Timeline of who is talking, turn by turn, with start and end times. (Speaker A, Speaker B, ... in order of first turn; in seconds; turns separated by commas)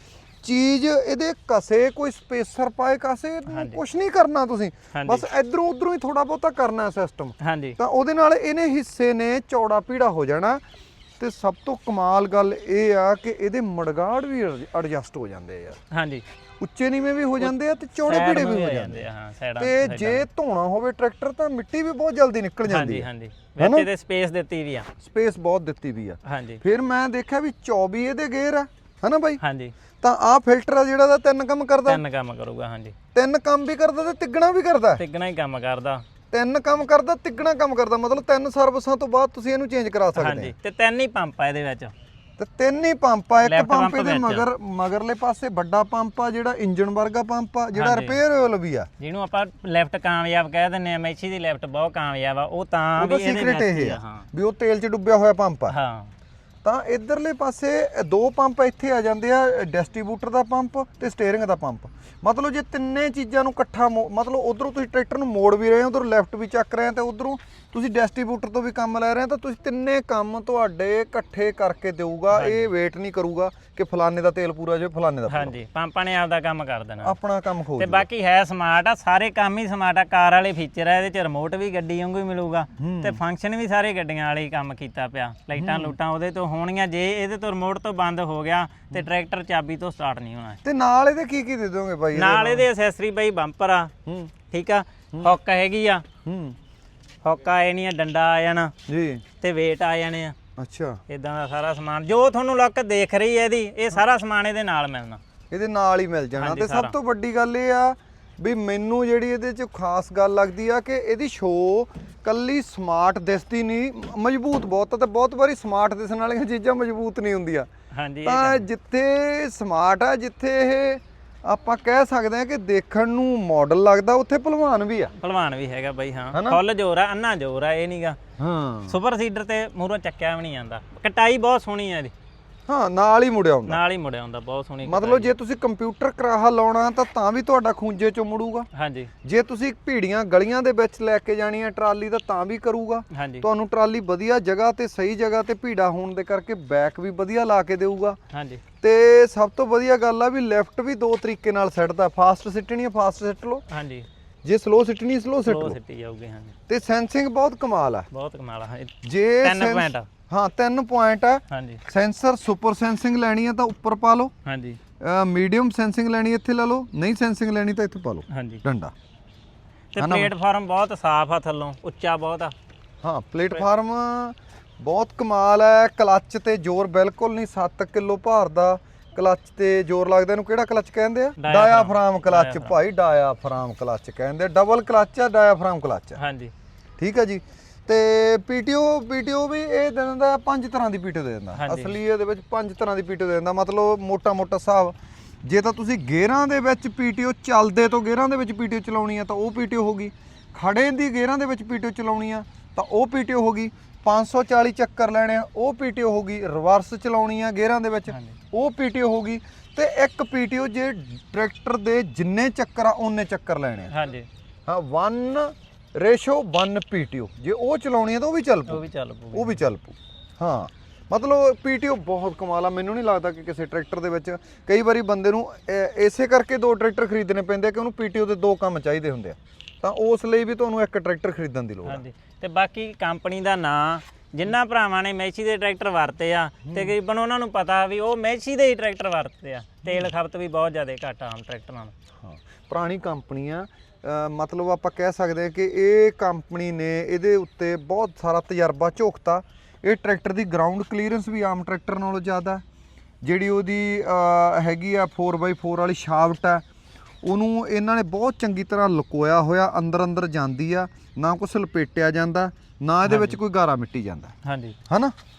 Speaker A: 0.4-10.6, Speaker B: 3.5-3.8, Speaker B: 4.9-5.2, Speaker B: 7.4-7.8, Speaker A: 11.2-15.8, Speaker B: 15.9-16.2, Speaker A: 16.6-19.0, Speaker B: 18.0-20.2, Speaker A: 19.6-23.1, Speaker B: 22.6-24.9, Speaker A: 23.6-23.9, Speaker A: 25.0-29.4, Speaker B: 26.2-26.6, Speaker B: 29.4-29.7, Speaker A: 30.0-32.0, Speaker B: 31.9-32.9, Speaker A: 33.1-35.0, Speaker B: 35.0-36.0, Speaker A: 36.3-40.5, Speaker B: 40.1-41.9, Speaker A: 42.4-48.9, Speaker B: 43.4-44.5, Speaker B: 47.8-48.2, Speaker B: 49.0-54.2, Speaker A: 53.0-55.7, Speaker B: 55.7-56.1, Speaker A: 56.6-75.5, Speaker B: 72.3-72.7, Speaker B: 75.3-77.1, Speaker A: 77.0-78.0, Speaker B: 77.8-90.6, Speaker A: 82.8-83.2, Speaker A: 85.5-85.9, Speaker A: 90.6-92.7, Speaker B: 92.1-93.9, Speaker A: 94.0-94.3, Speaker B: 94.5-96.0, Speaker A: 96.2-96.6, Speaker B: 97.2-98.7, Speaker A: 98.9-99.2, Speaker B: 99.4-100.3, Speaker A: 100.6-101.0, Speaker B: 101.1-105.2, Speaker A: 105.5-117.7, Speaker B: 106.4-106.9, Speaker B: 117.9-118.7, Speaker A: 118.2-125.1, Speaker B: 125.2-128.2, Speaker A: 126.3-126.6, Speaker A: 128.4-129.0, Speaker B: 128.9-132.1, Speaker A: 132.7-133.8, Speaker B: 133.7-135.3, Speaker A: 134.8-138.7, Speaker B: 138.7-139.1, Speaker A: 139.2-148.2, Speaker B: 143.1-143.4, Speaker B: 148.3-148.6, Speaker A: 148.8-153.6, Speaker B: 153.7-154.1, Speaker A: 154.4-155.8, Speaker B: 155.4-156.5, Speaker A: 156.7-158.1, Speaker B: 158.1-160.1, Speaker A: 159.0-164.3, Speaker B: 161.5-161.8, Speaker B: 164.4-164.8, Speaker A: 165.0-168.9, Speaker B: 168.3-168.6, Speaker B: 169.9-172.5, Speaker A: 170.0-170.3, Speaker A: 173.0-186.2, Speaker B: 181.4-182.8, Speaker B: 186.2-186.5, Speaker A: 187.0-213.9, Speaker B: 191.5-191.9, Speaker B: 213.9-214.3, Speaker A: 214.7-232.0, Speaker B: 218.7-219.6, Speaker B: 231.8-241.9, Speaker A: 236.6-236.9, Speaker A: 242.2-252.6, Speaker A: 253.2-256.6, Speaker A: 257.2-264.3, Speaker B: 263.0-263.4, Speaker B: 264.4-264.8, Speaker A: 264.9-265.1